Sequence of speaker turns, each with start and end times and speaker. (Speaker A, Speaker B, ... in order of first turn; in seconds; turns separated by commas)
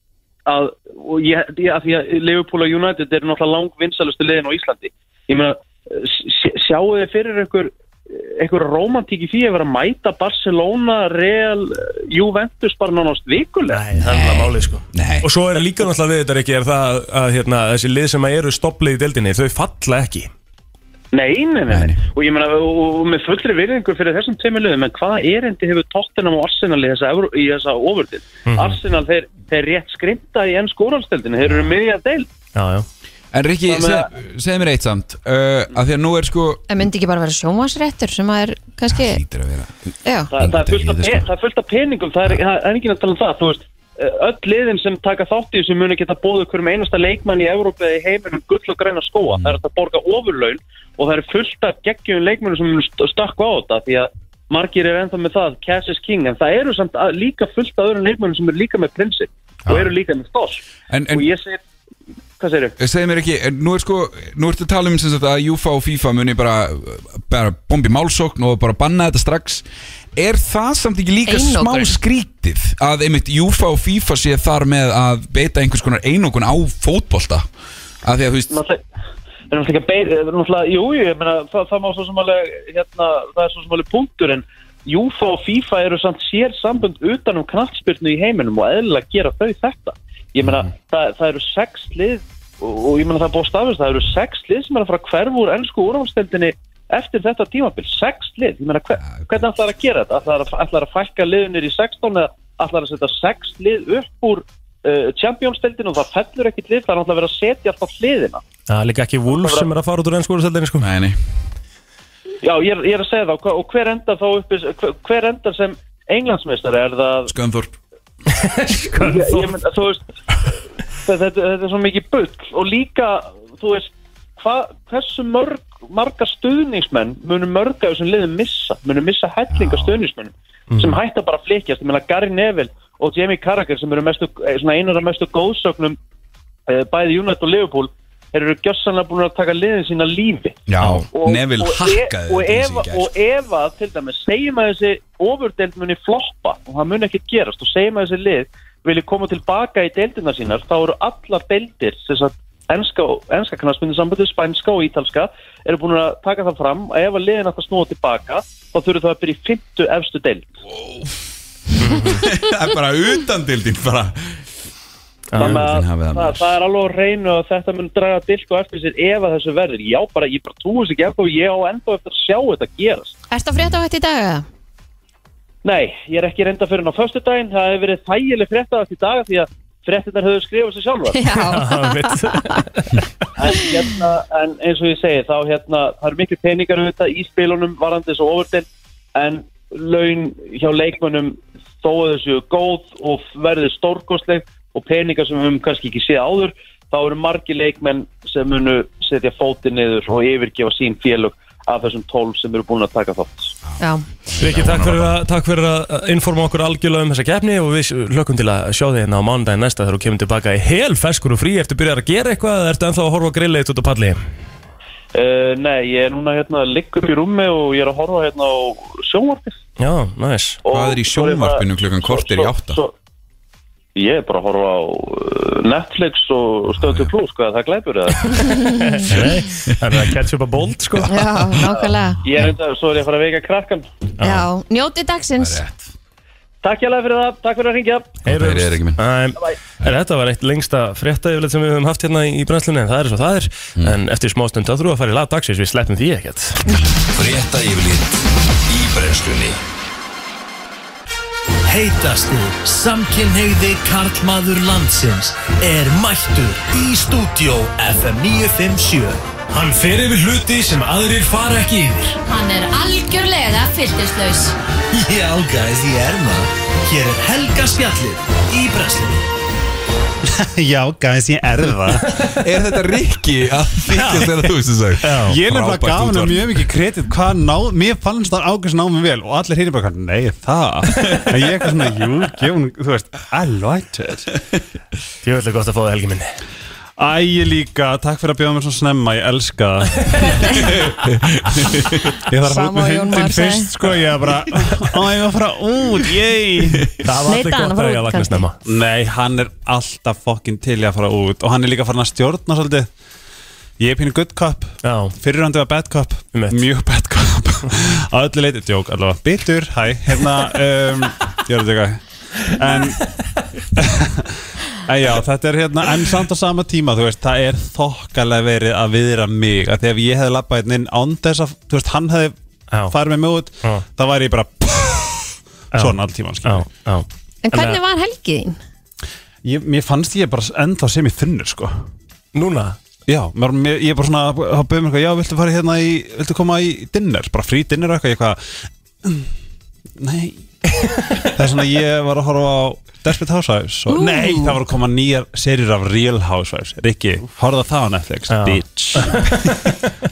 Speaker A: 0.5-13.8, Speaker B: 13.7-20.3, Speaker C: 14.0-14.3, Speaker C: 14.9-15.3, Speaker A: 21.1-32.3, Speaker C: 21.7-22.0, Speaker B: 28.5-28.8, Speaker C: 31.5-31.7, Speaker B: 32.5-32.9, Speaker C: 33.3-36.7, Speaker A: 33.7-34.1, Speaker D: 36.7-39.2, Speaker C: 38.9-39.7, Speaker D: 40.0-40.3, Speaker A: 40.3-61.6, Speaker C: 40.4-41.3, Speaker C: 59.7-59.9, Speaker C: 60.9-61.3, Speaker A: 62.4-62.8, Speaker C: 62.8-69.6, Speaker C: 70.2-77.5, Speaker D: 71.3-72.0, Speaker C: 78.0-78.5, Speaker A: 78.5-78.8, Speaker A: 79.5-108.4, Speaker C: 99.1-99.4, Speaker B: 108.7-110.9, Speaker A: 109.3-109.7, Speaker C: 110.8-111.2, Speaker A: 112.4-117.3, Speaker C: 117.3-117.8, Speaker B: 118.3-119.5, Speaker A: 118.7-120.0, Speaker A: 121.0-136.0, Speaker C: 129.5-129.9, Speaker B: 130.7-131.0, Speaker A: 136.7-140.6, Speaker C: 140.7-143.1, Speaker B: 140.8-141.1, Speaker A: 141.1-160.5, Speaker C: 160.7-161.2, Speaker B: 161.8-162.2, Speaker C: 161.9-164.4, Speaker B: 165.3-165.6, Speaker A: 165.3-173.1, Speaker C: 165.4-166.4, Speaker D: 173.3-174.4, Speaker A: 175.6-181.3, Speaker D: 181.1-182.6, Speaker B: 181.4-183.0, Speaker A: 183.4-203.5, Speaker C: 203.7-205.2, Speaker D: 203.8-204.1, Speaker B: 204.4-214.2, Speaker A: 215.1-219.6, Speaker B: 219.8-220.6, Speaker A: 220.6-222.9, Speaker C: 220.7-222.8, Speaker A: 223.9-228.8, Speaker C: 226.8-227.1, Speaker B: 228.8-231.2, Speaker C: 229.1-230.0, Speaker D: 231.1-232.2, Speaker A: 232.2-233.9, Speaker B: 234.2-234.5, Speaker D: 234.2-235.6, Speaker C: 235.4-235.9, Speaker A: 236.6-238.2, Speaker C: 238.3-239.0, Speaker B: 238.3-246.6, Speaker E: 247.1-249.6, Speaker E: 251.7-259.2, Speaker B: 259.5-261.8, Speaker E: 260.2-262.1, Speaker D: 262.3-264.6, Speaker E: 264.9-269.2, Speaker F: 270.2-272.1, Speaker C: 272.3-276.7, Speaker B: 273.9-274.4, Speaker B: 275.0-275.4, Speaker F: 275.2-284.4, Speaker B: 285.2-286.3, Speaker F: 287.0-290.8, Speaker C: 290.6-292.1, Speaker F: 292.1-296.9, Speaker D: 292.5-293.7, Speaker B: 297.0-298.6, Speaker D: 297.2-298.5, Speaker F: 298.6-302.9, Speaker F: 303.8-313.2, Speaker B: 304.8-305.2, Speaker B: 306.3-306.7, Speaker F: 313.7-322.4, Speaker F: 322.9-326.7, Speaker B: 325.7-327.8, Speaker D: 327.4-328.6, Speaker F: 329.4-331.7, Speaker B: 332.4-332.8, Speaker F: 333.1-338.4, Speaker F: 339.0-339.3, Speaker F: 340.0-349.6, Speaker D: 344.1-344.4, Speaker B: 348.3-349.9